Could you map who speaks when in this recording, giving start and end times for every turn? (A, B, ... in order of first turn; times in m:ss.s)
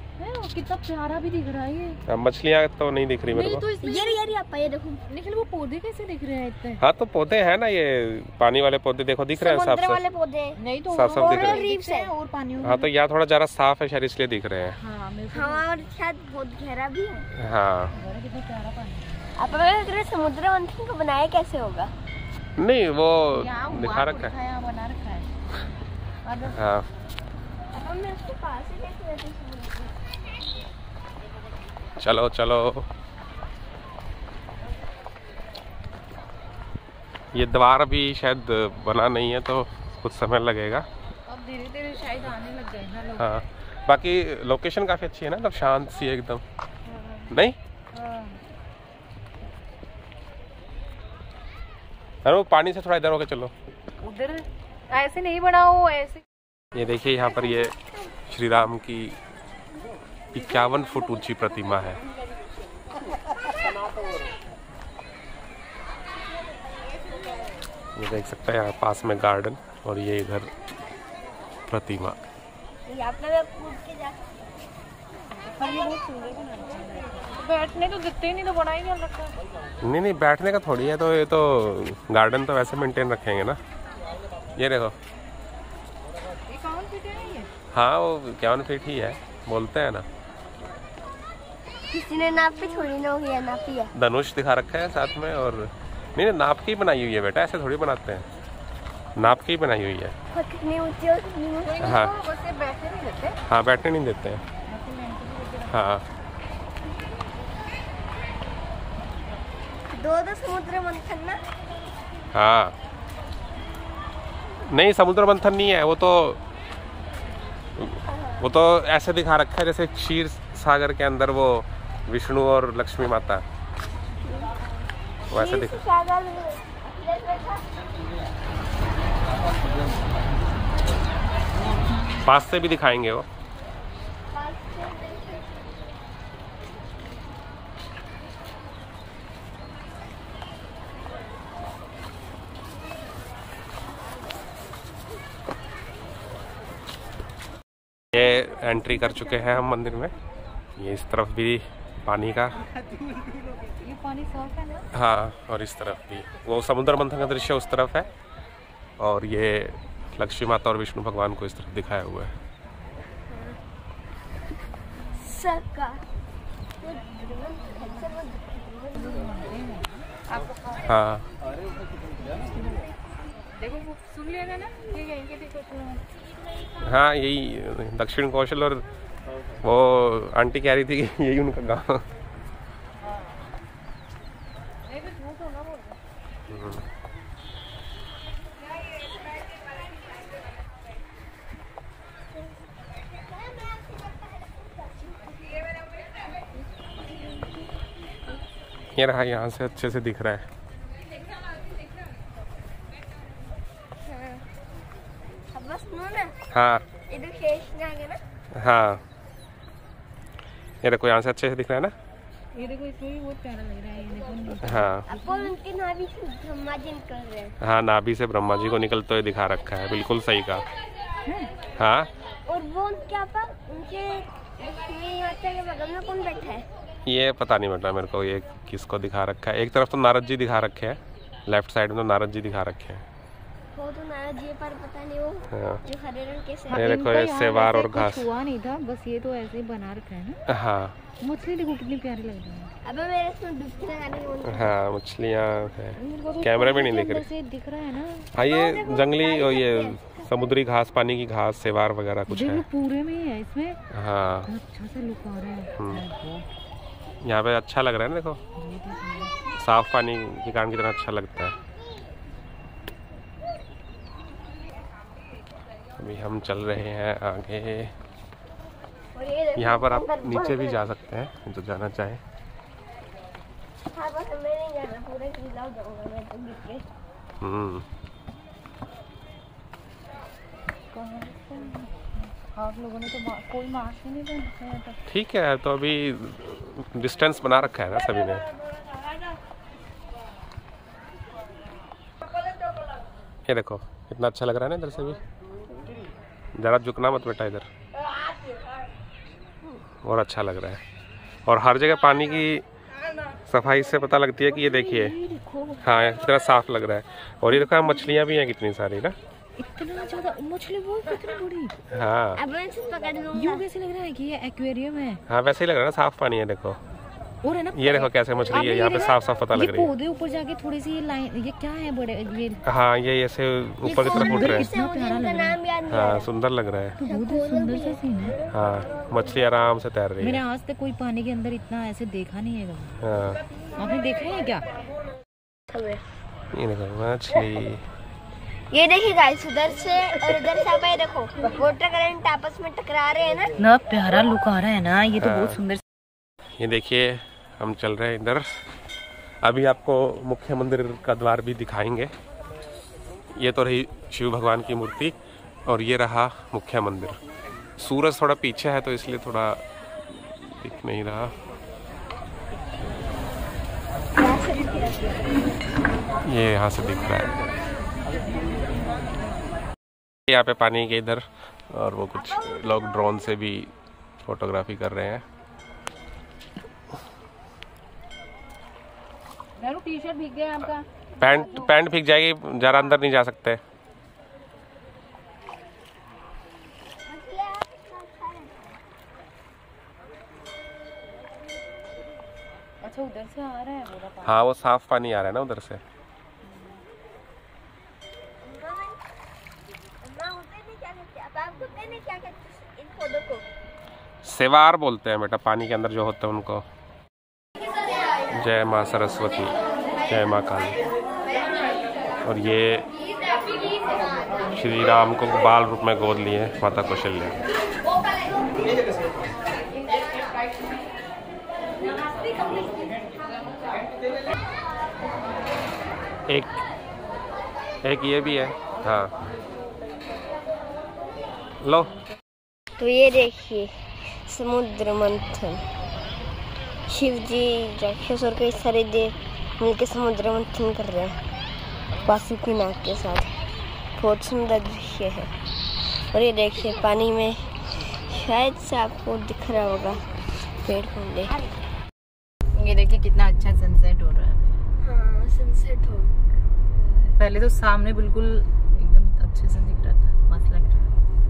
0:00.2-0:02.0 A
0:02.1-0:03.7 B
0:03.3-0:04.2 A
0:03.8-0:05.1 C
0:05.1-0:06.8 A
0:06.8-0:10.0 B
0:09.3-0:10.6 C
0:10.6-0:12.9 A
0:10.9-0:11.6 B
0:11.2-0:12.1 C
0:12.6-0:14.8 B
0:14.7-0:16.0 A
0:15.3-0:17.3 C
0:17.4-0:17.9 B
0:18.0-0:19.1 A
0:19.4-0:21.9 C
0:22.6-0:24.3 B
0:23.3-0:25.3 A
0:26.2-0:26.6 A
0:26.5-0:26.9 B
0:27.7-0:30.0 C
0:32.0-0:32.9 B
0:37.3-0:40.9 B
0:41.3-0:43.2 A
0:43.2-0:46.4 B
0:47.3-0:47.6 B
0:47.9-0:48.3 A
0:52.2-0:53.5 B
0:54.0-0:56.2 A
0:56.7-0:57.8 B
0:58.3-0:59.2 B
1:00.3-1:02.0 B
1:08.0-1:10.5 B
1:11.7-1:12.2 B
1:12.9-1:14.2 C
1:15.4-1:19.3 A
1:19.8-1:23.6 B
1:24.6-1:24.9 B
1:26.5-1:27.5 A
1:27.7-1:30.1 B
1:31.9-1:33.9 C
1:33.9-1:38.3 B
1:39.2-1:40.2 B
1:40.3-1:42.1 C
1:41.8-1:42.1 B
1:41.9-1:43.4 A
1:43.5-1:44.4 B
1:44.7-1:45.6 A
1:45.7-1:46.0 B
1:49.9-1:51.4 C
1:52.3-1:52.8 B
1:54.7-1:56.4 B
1:57.8-2:03.4 B
2:04.2-2:04.5 C
2:05.3-2:05.8 B
2:05.3-2:07.7 C
2:12.2-2:13.3 B
2:14.3-2:15.6 C
2:28.1-2:30.1 B
2:30.8-2:32.6 B
2:33.8-2:34.9 A
2:34.9-2:38.1 B
2:39.0-2:42.4 B
2:43.3-2:43.6 C
2:45.2-2:46.0 C
2:46.8-2:49.4 C
2:48.9-2:49.9 A
2:50.8-2:51.3 B
2:53.6-2:56.0 A
2:56.8-2:58.8 B
2:59.6-3:02.0 B
3:05.1-3:05.7 A
3:06.5-3:06.8 B
3:18.9-3:20.4 B
3:24.1-3:24.5 C
3:25.5-3:26.4 C
3:26.5-3:26.9 B
3:27.1-3:28.2 C
3:28.6-3:29.0 B
3:30.8-3:31.9 B
3:32.5-3:35.5 A
3:34.6-3:35.0 B
3:35.1-3:37.6 C
3:37.6-3:40.7 B
3:41.8-3:42.1 B
3:42.5-3:46.7 C
3:47.1-3:53.0 B
3:53.7-3:57.2 C
3:55.5-3:55.8 B
3:56.7-3:58.3 B
3:56.7-4:00.4 A
4:00.5-4:01.0 B
4:01.2-4:02.7 A
4:02.8-4:04.8 C
4:04.4-4:07.3 B
4:06.0-4:08.3 A
4:08.3-4:12.6 B
4:08.4-4:10.3 C
4:12.3-4:13.8 A
4:13.9-4:14.5 B
4:14.5-4:16.5 A
4:15.8-4:16.0 B
4:17.2-4:18.4 B
4:18.6-4:19.3 A
4:19.6-4:21.6 B
4:26.0-4:27.9 B
4:29.1-4:30.8 C
4:29.6-4:32.2 B
4:33.9-4:36.9 C
4:37.4-4:37.8 B
4:40.9-4:45.0 A
4:45.1-4:48.5 B
4:53.5-4:55.2 B
4:56.6-4:57.7 B
5:00.0-5:00.8 B
5:01.5-5:02.6 B
5:03.5-5:05.2 B
5:04.7-5:05.8 C
5:05.8-5:09.2 B
5:09.6-5:11.7 A
5:11.9-5:12.4 B
5:12.4-5:13.7 C
5:13.3-5:15.2 A
5:15.3-5:16.8 B
5:17.4-5:22.6 A
5:17.7-5:19.9 B
5:22.7-5:24.7 B
5:23.8-5:26.3 C
5:24.0-5:25.6 A
5:25.9-5:27.0 B
5:27.0-5:28.4 A
5:27.0-5:28.0 C
5:28.5-5:30.4 B
5:30.2-5:33.0 A
5:33.0-5:33.4 B
5:33.8-5:34.6 A
5:35.7-5:36.0 C
5:36.5-5:37.9 B
5:38.7-5:43.5 C
5:43.6-5:45.8 A
5:45.2-5:45.6 B
5:46.6-5:48.5 B
5:49.4-5:52.1 B
5:53.4-5:55.2 B
5:55.7-5:57.2 B
5:57.8-6:01.4 B
6:04.2-6:05.4 C
6:06.2-6:07.3 B
6:10.3-6:13.7 B
6:12.2-6:13.1 C
6:14.2-6:15.2 B
6:19.6-6:20.8 A
6:21.2-6:23.6 B
6:27.1-6:28.7 C
6:32.8-6:34.4 A
6:34.2-6:35.8 B
6:38.4-6:39.0 C
6:40.0-6:43.4 C
6:44.2-6:46.6 B
6:48.3-6:50.8 B
6:52.2-6:52.9 B
6:54.5-6:57.4 B
7:06.3-7:06.6 B
7:07.8-7:09.1 B
7:11.6-7:11.9 B
7:12.8-7:15.6 C
7:16.9-7:21.2 C
7:22.0-7:23.3 C
7:24.0-7:25.3 C
7:26.1-7:30.0 C
7:30.6-7:31.4 C
7:32.5-7:34.6 A
7:34.8-7:36.1 C
7:36.8-7:37.1 C
7:37.2-7:40.9 A